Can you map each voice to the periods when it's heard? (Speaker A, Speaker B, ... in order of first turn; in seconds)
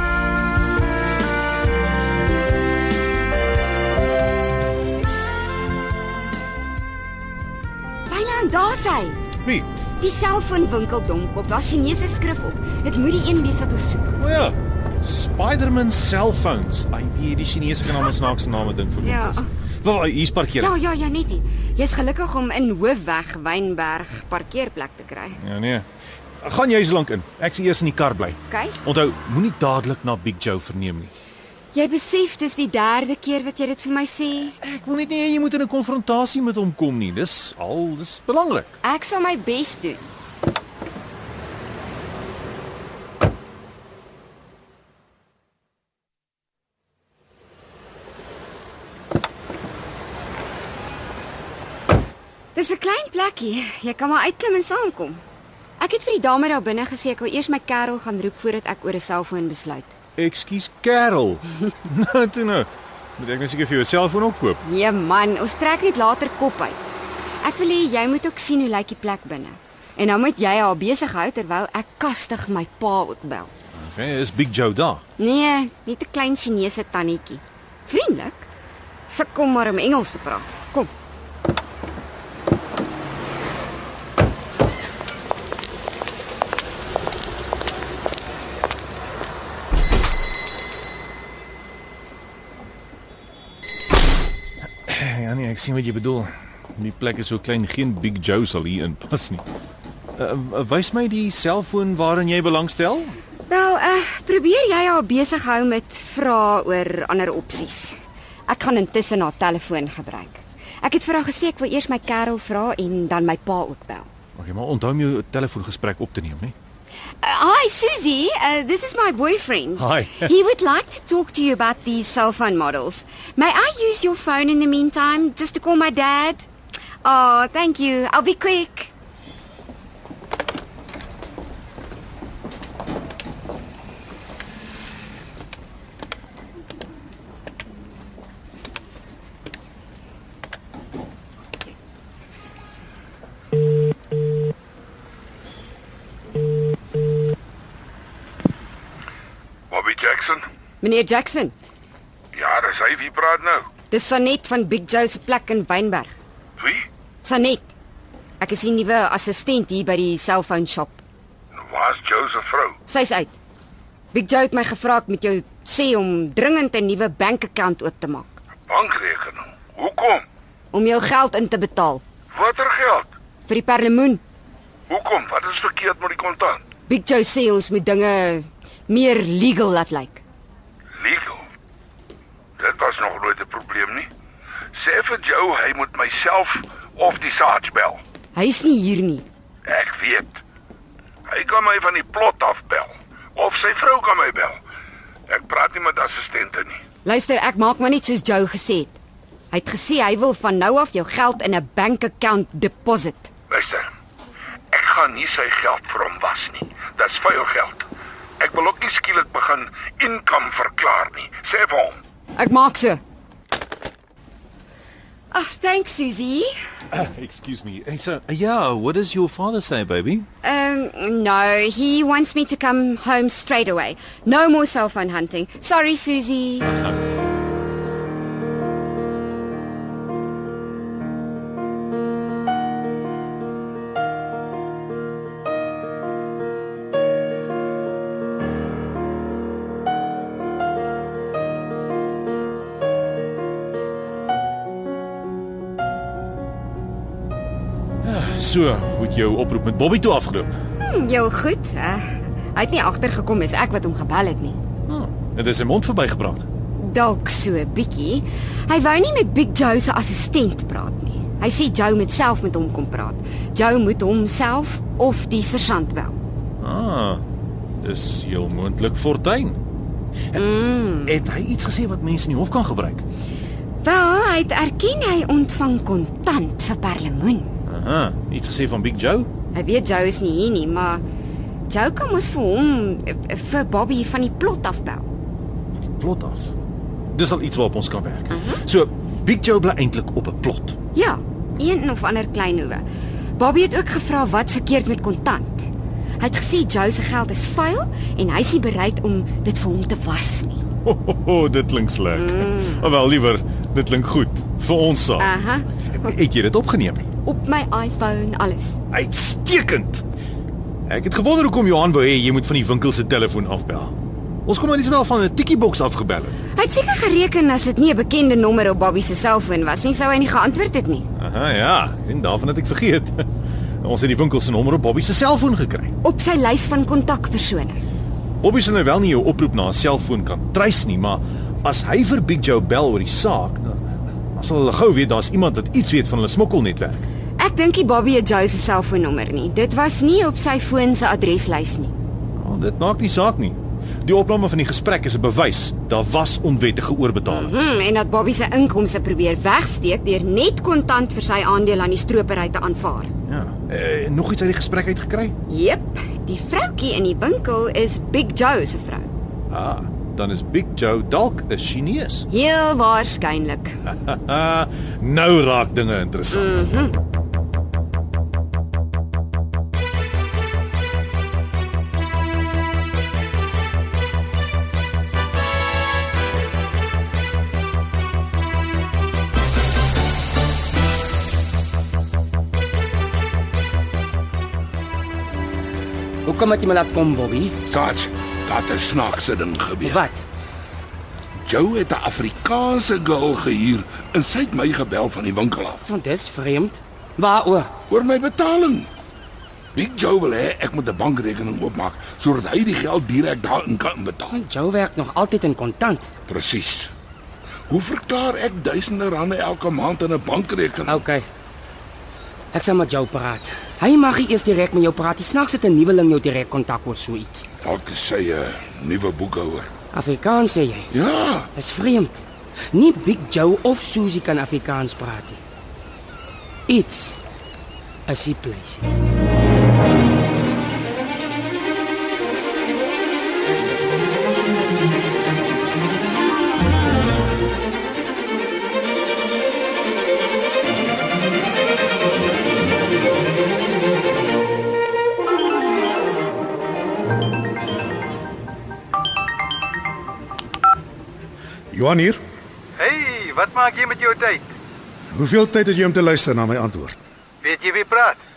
Speaker A: 8.1-9.2, 10.0-14.2, 19.0-19.5, 20.6-25.4, 28.5-28.8, 31.7-34.6, 38.8-40.0, 52.5-55.2, 55.8-59.9, 64.6-66.8, 67.4-73.5, 75.2-78.5, 79.1-80.9, 103.5-108.0, 108.5-114.1, 117.2-126.5, 127.0-128.9, 150.8-151.5, 153.9-156.2, 157.2-157.7, 158.4-161.0, 162.9-163.3, 164.1-168.4, 170.7-172.0, 173.5-174.2, 176.9-180.2, 188.3-189.2, 197.0-199.0, 199.5-203.3, 212.3-213.0, 215.3-216.5, 220.4-226.7, 250.8-254.6, 256.8-266.2, 270.3-271.2, 273.8-277.5, 279.5-281.0, 281.7-285.1, 288.3-288.6, 290.9-292.8, 293.4-295.7, 296.2-300.6, 302.1-302.9, 305.2-305.7, 307.2-308.8, 316.6-321.1, 326.0-327.8, 337.4-341.9, 347.3-353.1, 355.5-359.1, 362.3-363.8, 366.3-366.9
Speaker B: 9.4-9.7, 14.2-20.7, 25.4-25.9, 26.4-31.1, 34.6-38.8, 60.2-64.6, 73.7-75.0, 94.8-99.4, 100.2-103.2, 114.3-116.5, 119.8-120.3, 216.9-220.2, 226.7-227.1, 248.0-250.5, 254.9-256.5, 266.6-267.2, 267.8-269.6, 271.0-273.0, 277.7-279.3, 285.8-286.5, 287.1-290.8, 300.8-305.3, 306.0-307.1, 308.9-310.0, 310.9-313.9, 314.4-316.4, 321.2-323.3, 323.8-325.9, 328.4-337.1, 342.4-347.5, 353.3-355.3, 359.5-362.3, 363.9-366.9
Speaker C: 149.7-150.4, 152.3-153.7, 156.6-156.8, 161.6-162.8, 168.7-170.2, 172.3-173.1, 174.9-176.6, 181.0-181.4, 182.6-184.1, 184.7-188.0, 189.6-190.4, 191.3-194.6, 195.3-196.8, 203.5-203.9, 204.7-207.8, 208.4-212.0, 387.7-390.0, 391.4-395.8, 397.9-398.9, 399.7-404.4, 406.3-406.9, 407.7-411.0, 417.6-419.7, 420.9-421.5
Speaker D: 386.2-387.6, 389.8-390.2, 395.8-397.7, 404.3-406.1, 410.9-411.2, 412.5-417.4, 419.9-420.9, 421.5-425.4, 426.7-427.2, 428.1-428.9
Speaker E: 451.7-452.2, 455.1-457.0
Speaker F: 452.8-454.5, 457.4-458.2